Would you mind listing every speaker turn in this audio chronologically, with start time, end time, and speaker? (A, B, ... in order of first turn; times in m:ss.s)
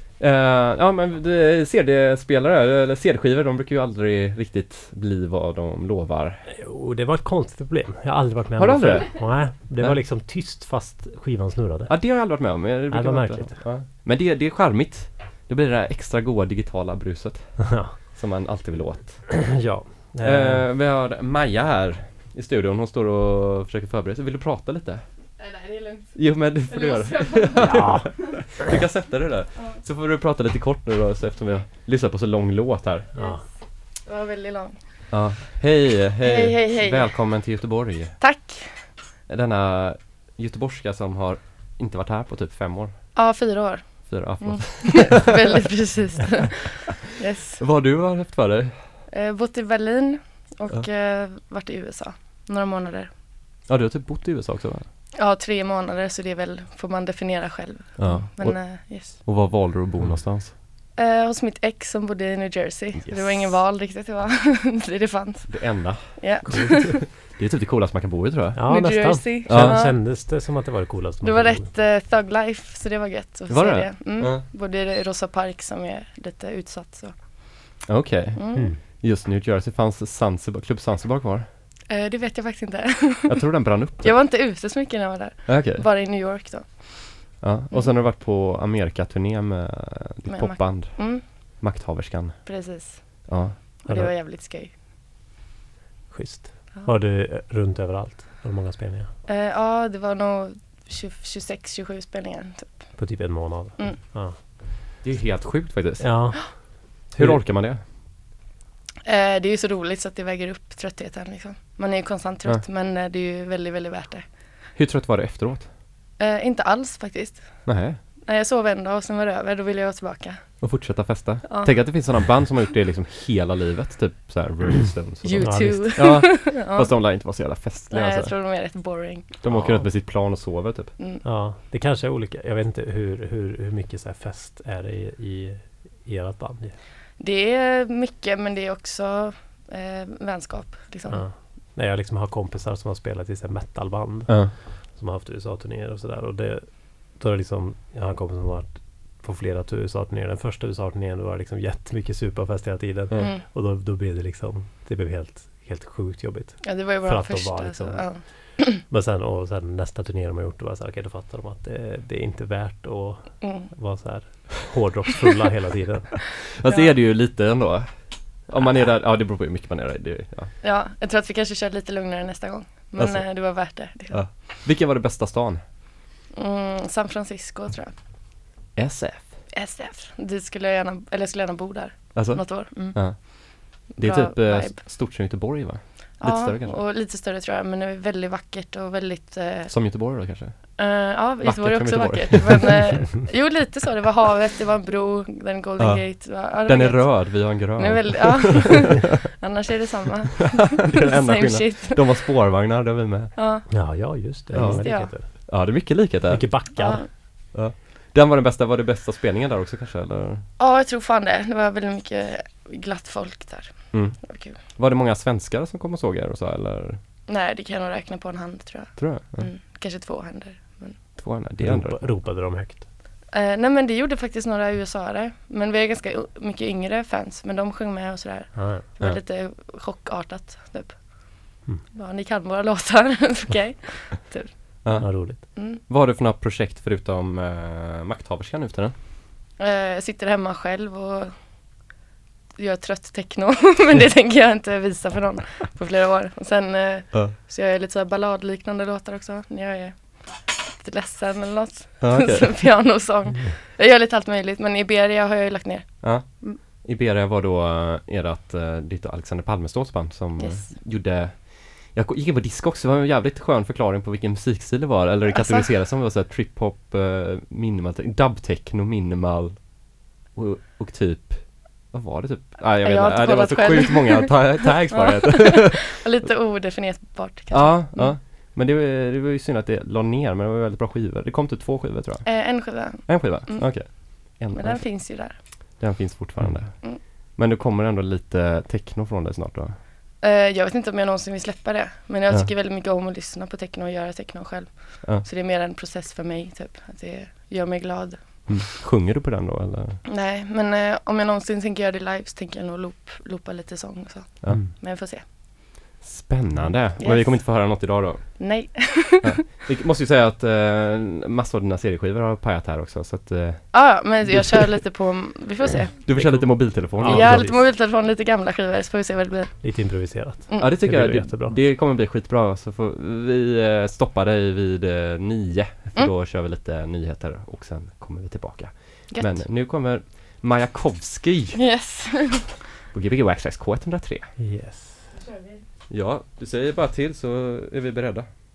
0:00.2-0:06.4 A
0:06.5-0:12.0 B
0:08.6-0:10.0 A
0:11.9-0:19.4 A
0:12.9-0:13.6 B
0:17.6-0:18.0 B
0:19.3-0:20.7 B
0:20.2-0:25.0 A
0:25.4-0:28.1 C
0:26.1-0:33.1 A
0:27.6-0:28.7 B
0:33.1-0:33.4 B
0:33.2-0:35.4 C
0:35.1-0:38.2 A
0:36.2-0:37.4 C
0:38.2-0:38.9 C
0:39.3-0:43.1 A
0:43.1-0:47.6 C
0:44.1-0:45.3 A
0:47.6-0:49.0 A
0:49.1-0:53.1 C
0:53.6-0:54.8 A
0:55.1-0:59.2 C
0:58.0-1:00.5 A
1:00.9-1:07.1 C
1:05.5-1:09.8 A
1:06.5-1:06.9 B
1:08.5-1:11.7 B
1:08.7-1:10.0 C
1:11.2-1:17.7 C
1:13.5-1:14.4 A
1:17.9-1:21.5 A
1:18.3-1:18.7 C
1:18.5-1:18.8 B
1:21.9-1:27.9 C
1:23.3-1:24.2 A
1:25.5-1:25.9 A
1:27.4-1:32.6 A
1:30.3-1:31.2 C
1:32.4-1:34.7 C
1:33.2-1:33.8 A
1:33.9-1:34.1 B
1:36.1-1:39.1 B
1:39.3-1:43.0 C
1:43.0-1:44.4 B
1:45.0-1:46.5 A
1:46.0-1:47.4 B
1:47.1-1:47.8 A
1:49.0-1:54.4 C
1:54.7-1:55.7 A
1:56.2-2:00.9 C
1:57.6-1:58.0 A
2:00.6-2:08.4 A
2:01.5-2:02.4 C
2:05.2-2:09.4 C
2:05.4-2:05.9 B
2:09.4-2:10.9 A
2:09.5-2:09.9 B
2:11.0-2:11.2 C
2:11.2-2:16.8 B
2:17.2-2:21.3 C
2:21.1-2:46.3 B
2:24.3-2:24.5 A
2:36.6-2:38.7 C
2:43.4-2:43.7 C
2:46.6-2:50.5 A
2:46.6-2:46.9 C
2:50.6-2:54.4 C
2:53.0-2:55.6 A
2:56.3-2:58.0 C
2:58.8-2:59.4 A
2:59.5-3:05.2 C
3:02.1-3:06.8 A
3:06.2-3:10.1 C
3:09.7-3:13.0 A
3:10.8-3:22.5 C
3:15.8-3:19.0 A
3:20.8-3:23.7 A
3:23.4-3:25.1 C
3:23.7-3:27.1 B
3:24.5-3:30.4 A
3:26.7-3:27.1 C
3:30.6-3:34.6 C
3:33.9-3:37.0 A
3:37.3-3:41.2 C
3:39.0-3:39.5 A
3:41.2-3:42.1 A
3:41.6-3:42.8 B
3:43.3-3:55.0 C
3:48.5-3:49.2 B
3:54.8-3:58.9 A
3:55.0-3:55.4 B
3:55.6-3:55.8 C
3:59.6-4:01.8 C
4:02.6-4:16.6 C
4:12.0-4:13.0 A
4:16.0-4:36.0 A
4:20.4-4:20.8 C
4:25.3-4:25.7 C
4:32.8-4:38.2 C
4:37.5-4:49.8 A
4:42.2-4:45.8 C
4:50.2-4:58.6 C
4:58.5-5:00.0 A
5:00.0-5:05.2 C
5:06.0-5:08.7 A
5:07.0-5:09.4 C
5:09.2-5:14.8 A
5:13.7-5:20.8 C
5:15.7-5:17.5 A
5:16.1-5:17.6 B
5:19.6-5:21.5 B
5:20.6-5:31.6 A
5:29.1-5:29.4 C
5:31.5-5:32.6 C
5:32.9-5:34.3 A
5:34.4-5:35.2 B
5:35.1-5:35.6 C
5:35.9-5:38.3 A